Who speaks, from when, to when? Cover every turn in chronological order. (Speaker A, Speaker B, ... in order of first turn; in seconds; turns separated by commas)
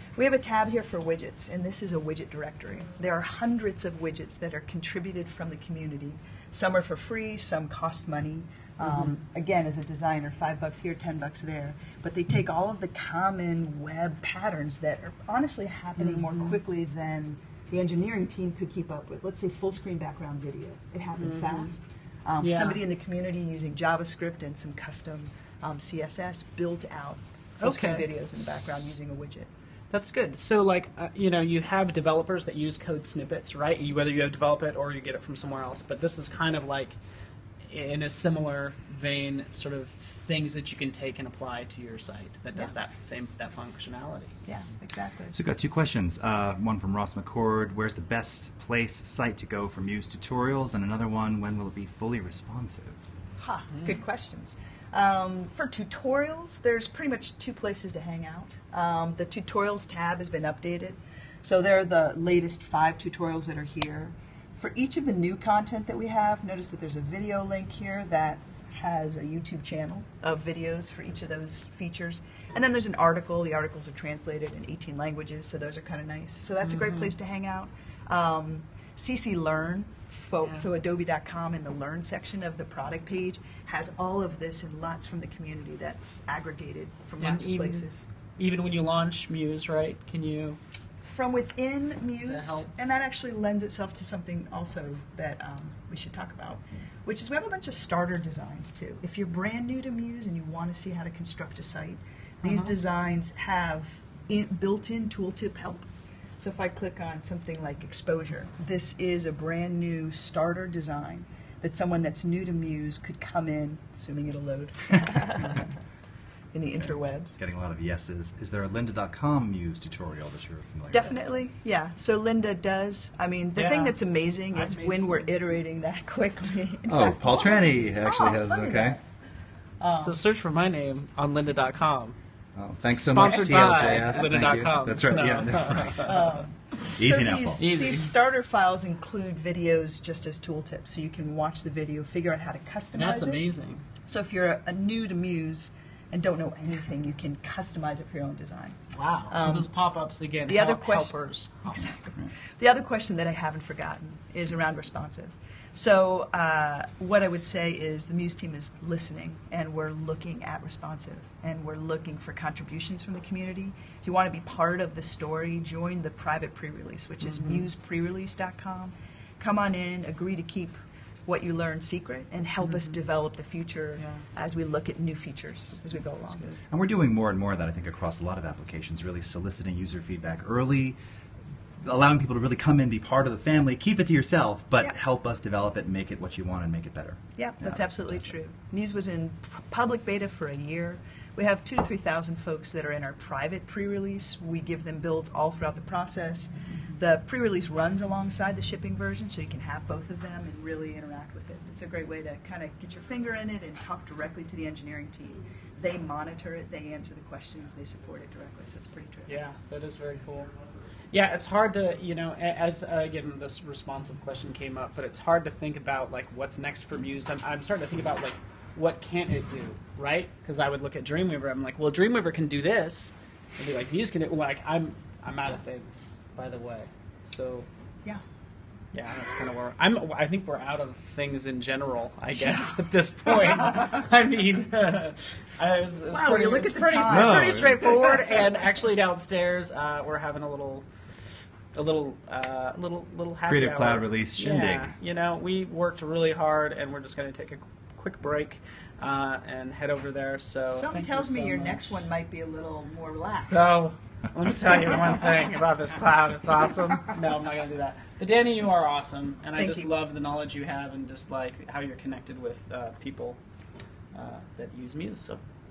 Speaker A: 0.1-29.5, Speaker B: 8.8-9.2, Speaker B: 16.0-16.6, Speaker B: 21.1-21.7, Speaker B: 22.4-22.8, Speaker B: 27.6-28.9, Speaker B: 29.9-37.0, Speaker B: 37.6-44.3, Speaker A: 44.5-45.4, Speaker C: 45.3-53.0, Speaker A: 53.4-88.0, Speaker B: 53.7-54.0, Speaker B: 76.6-77.1, Speaker B: 87.2-90.6, Speaker A: 91.0-105.8, Speaker B: 92.2-92.7, Speaker B: 102.4-102.8, Speaker A: 106.4-115.7, Speaker A: 116.5-117.3, Speaker C: 117.4-121.2, Speaker A: 120.9-129.0, Speaker B: 123.5-125.3, Speaker C: 126.9-129.0, Speaker A: 129.8-130.2, Speaker B: 130.0-132.2, Speaker C: 132.5-136.1, Speaker B: 133.0-136.2, Speaker A: 133.3-134.3, Speaker A: 136.0-143.4, Speaker C: 137.0-137.6, Speaker B: 137.6-138.1, Speaker B: 142.9-143.8, Speaker A: 144.1-148.8, Speaker B: 148.9-151.8, Speaker A: 149.3-149.7, Speaker A: 150.5-170.7, Speaker B: 167.2-167.7, Speaker A: 171.2-176.5, Speaker B: 172.6-172.9, Speaker B: 174.0-174.2, Speaker B: 176.2-176.6, Speaker C: 176.7-181.0, Speaker C: 181.8-188.3, Speaker A: 187.4-209.4, Speaker B: 209.3-210.5, Speaker B: 211.1-227.7, Speaker B: 228.9-252.1, Speaker A: 232.3-232.8, Speaker A: 236.1-238.0, Speaker C: 237.1-237.8, Speaker C: 243.5-244.9, Speaker A: 250.7-253.8, Speaker B: 253.4-263.4, Speaker A: 259.6-259.9, Speaker B: 264.1-265.4